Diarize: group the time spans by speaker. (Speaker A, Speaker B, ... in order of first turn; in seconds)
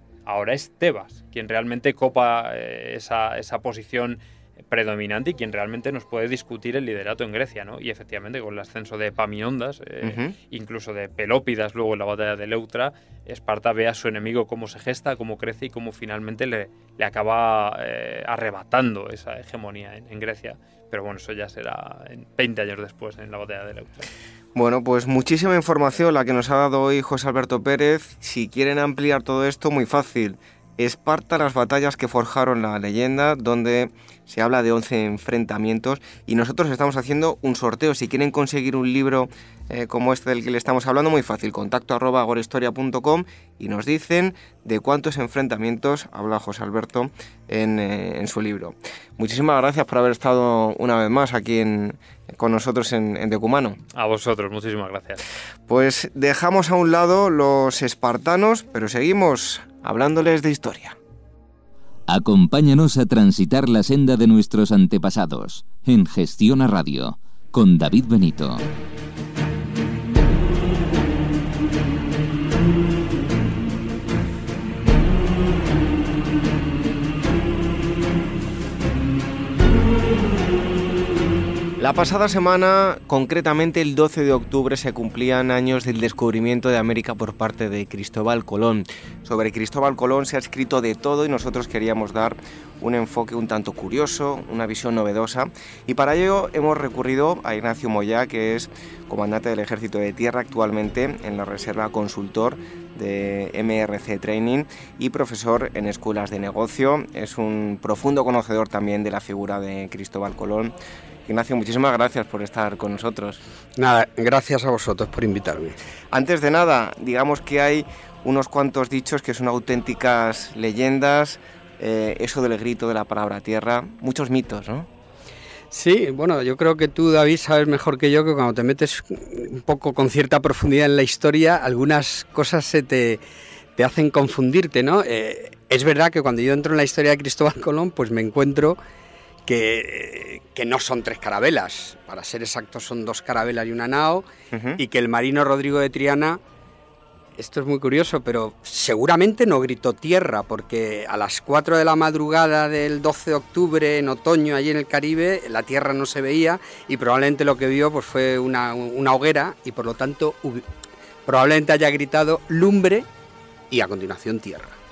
Speaker A: 0.2-24.1, 53.9-55.2
Speaker B: 10.0-10.3, 24.5-53.8, 55.7-61.0, 81.8-110.7, 111.2-113.4, 116.1-124.9, 144.5-144.8
Speaker C: 62.1-68.6
Speaker D: 113.8-115.8, 125.7-133.2, 133.8-138.8, 139.4-144.2, 144.8-146.4, 147.4-160.6, 161.2-163.1, 163.7-164.8